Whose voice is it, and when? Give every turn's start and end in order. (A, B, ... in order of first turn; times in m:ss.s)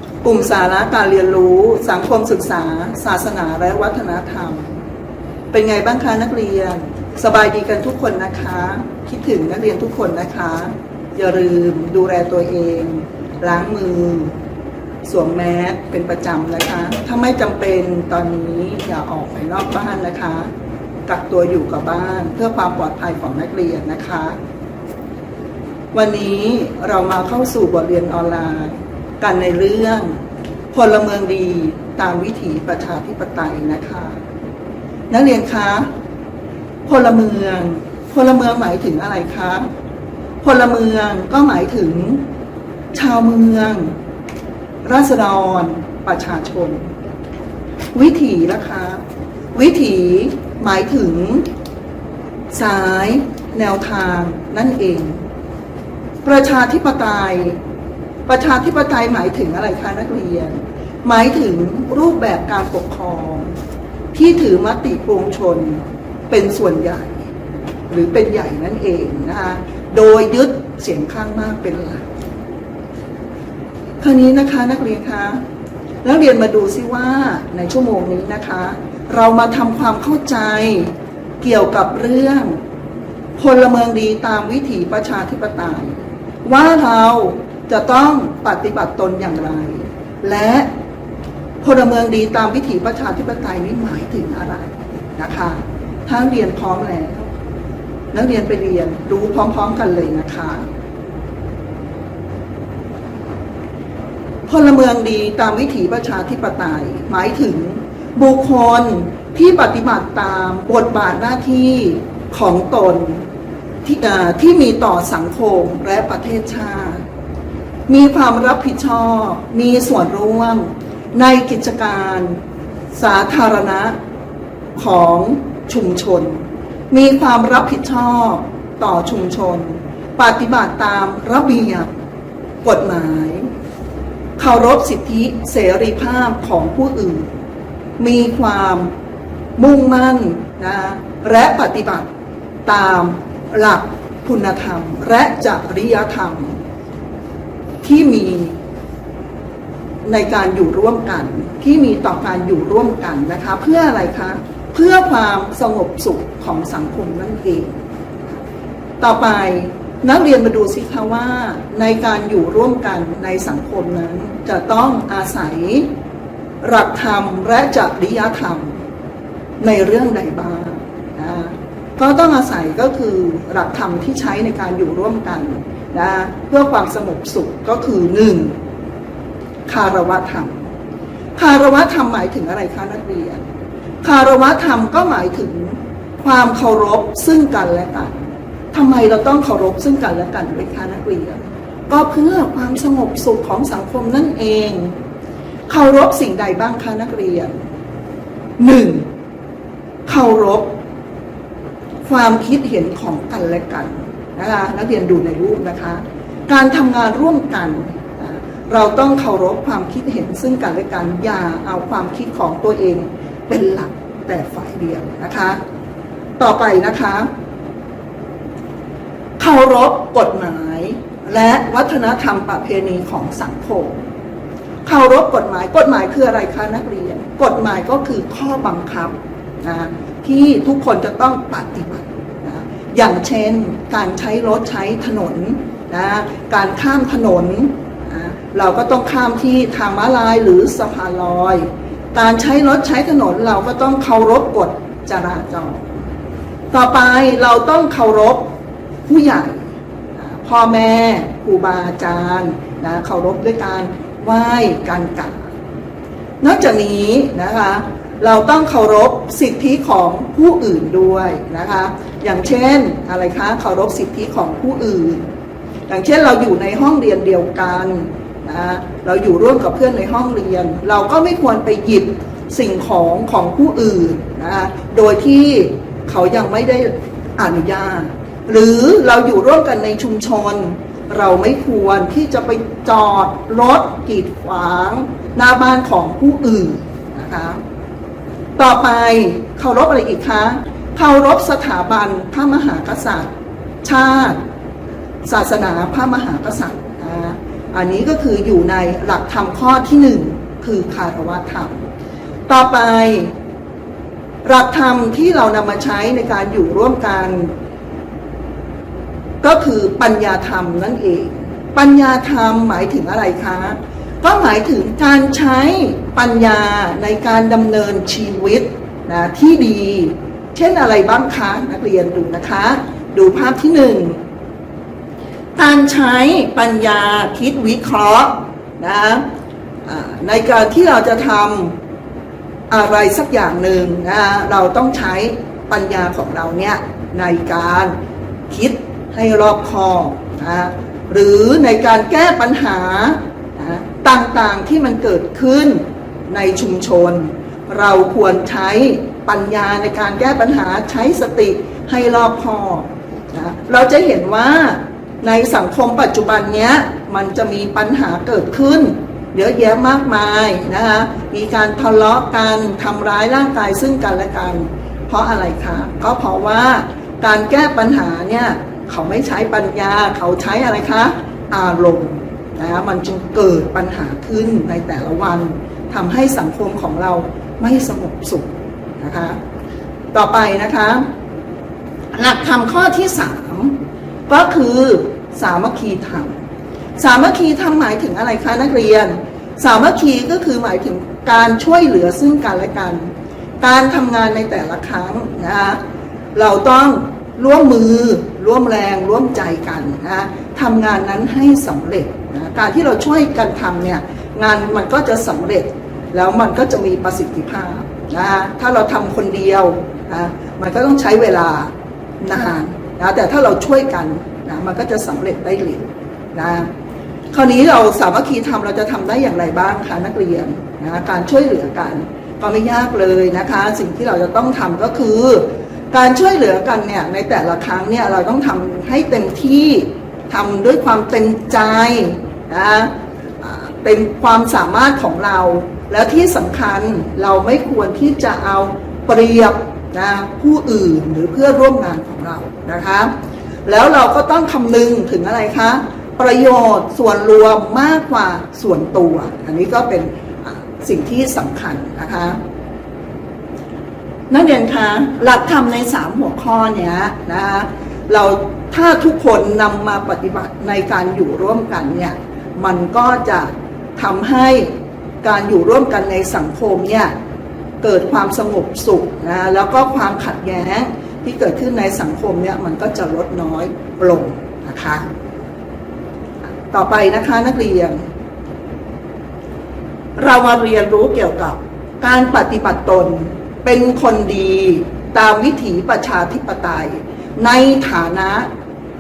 0:00.2-0:04.7 A
0:05.5-0:14.3 A
0:15.1-0:20.5 A
0:21.1-0:24.4 A
0:25.9-0:30.1 A
0:30.7-0:34.2 A
0:35.1-0:35.9 A
0:36.9-0:39.7 A
0:40.4-0:42.2 A
0:42.9-0:43.9 A
0:44.8-0:46.9 A
0:47.9-0:49.0 A
0:49.5-0:51.5 A
0:52.5-0:55.2 A
0:56.2-0:57.6 A
0:58.3-1:03.5 A
1:04.1-1:07.3 A
1:07.9-1:12.0 A
1:14.0-1:15.4 A
1:16.0-1:22.6 A
1:23.4-1:30.7 A
1:31.6-1:37.3 A
1:38.1-1:40.6 A
1:44.5-1:53.2 A
1:53.8-1:57.0 A
1:57.9-2:02.4 A
2:02.9-2:04.0 A
2:04.8-2:11.9 A
2:12.6-2:13.5 A
2:14.4-2:17.3 A
2:18.0-2:18.9 A
2:19.6-2:22.1 A
2:22.7-2:26.6 A
2:27.8-2:28.6 A
2:30.0-2:37.8 A
2:39.0-2:45.9 A
2:46.6-2:48.8 A
2:49.6-2:58.6 A
2:59.7-3:00.7 A
3:01.4-3:03.4 A
3:04.0-3:14.9 A
3:15.7-3:17.6 A
3:18.6-3:19.1 A
3:20.1-3:20.8 A
3:22.1-3:35.6 A
3:36.4-3:37.3 A
3:39.4-3:44.0 A
3:44.8-4:06.0 A
4:06.7-4:08.5 A
4:09.1-4:09.7 A
4:10.2-4:15.5 A
4:16.4-4:25.2 A
4:25.9-4:47.6 A
4:48.6-4:53.3 A
4:53.8-4:54.4 A
4:55.2-5:01.8 A
5:02.5-5:03.3 A
5:04.4-5:07.5 A
5:09.4-5:24.2 A
5:25.6-5:29.2 A
5:29.9-5:31.8 A
5:32.7-5:38.0 A
5:38.5-6:19.4 A
6:20.1-6:21.1 A
6:22.1-6:23.8 A
6:24.3-6:26.4 A
6:27.0-6:35.8 A
6:36.4-6:56.7 A
6:57.3-7:23.1 A
7:23.6-7:32.4 A
7:34.3-7:44.7 A
7:45.2-7:47.1 A
7:47.8-7:55.0 A
7:56.7-7:58.0 A
8:00.2-8:08.5 A